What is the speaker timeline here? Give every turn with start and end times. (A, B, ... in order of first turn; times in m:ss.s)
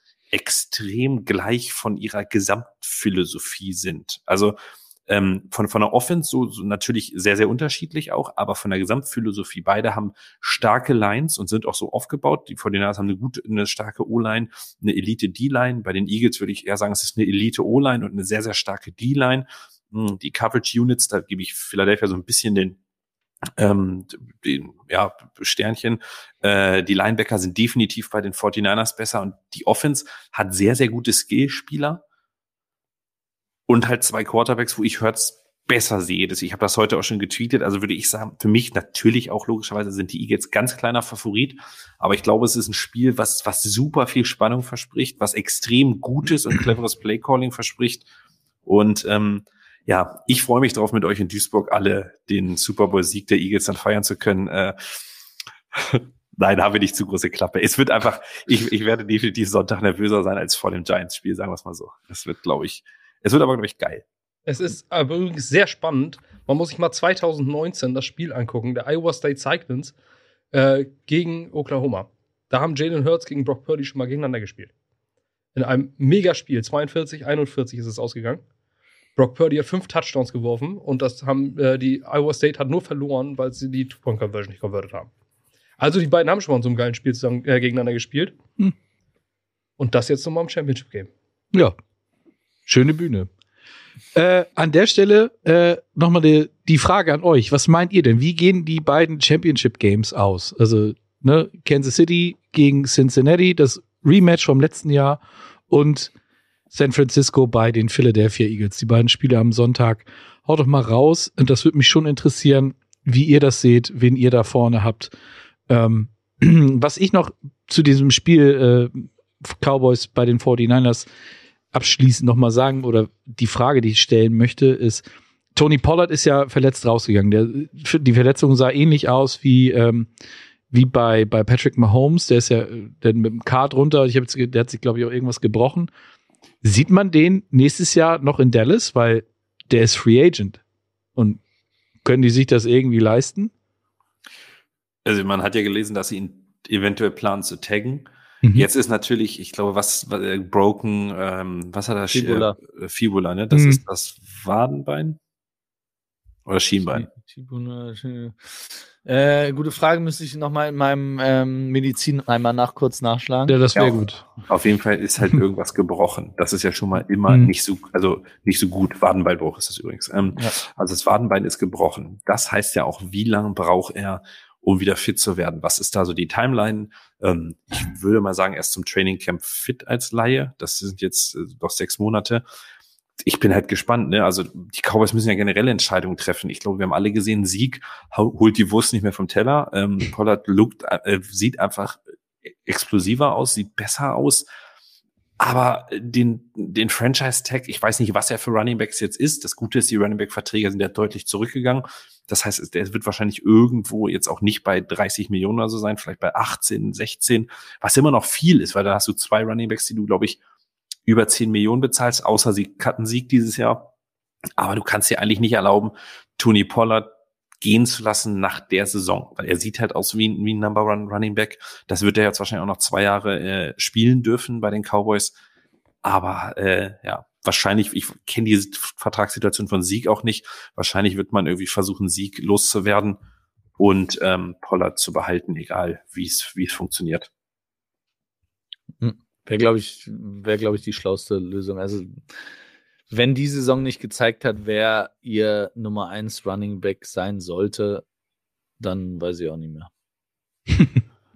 0:00.3-0:22.8 A
0:23.6-0:32.0 A
0:33.7-0:48.1 A
0:48.7-0:55.0 A
0:55.8-1:04.0 A
1:04.5-1:09.9 B
1:10.5-1:14.7 B
1:15.6-1:18.4 B
1:19.2-1:25.1 B
1:25.8-1:28.4 B
1:29.8-1:31.1 B
1:32.7-1:33.3 C
1:34.1-1:46.1 C
1:46.7-1:55.1 C
1:55.7-2:01.1 C
2:01.7-2:10.1 C
2:10.7-2:15.9 C
2:16.6-2:20.6 C
2:22.0-2:23.5 C
2:25.0-2:35.2 A
2:28.4-2:28.7 C
2:32.1-2:32.6 D
2:33.5-2:33.8 C
2:36.5-2:37.0 A
2:36.9-2:43.6 D
2:43.5-2:44.3 C
2:44.5-3:02.4 A
3:03.2-3:12.0 A
3:12.7-3:14.5 A
3:15.4-3:30.4 A
3:31.1-3:33.9 A
3:34.6-3:37.1 A
3:37.6-3:45.4 A
3:46.0-3:53.2 A
3:53.8-3:57.3 A
3:59.0-4:02.3 D
4:03.1-4:08.0 D
4:08.8-4:09.9 D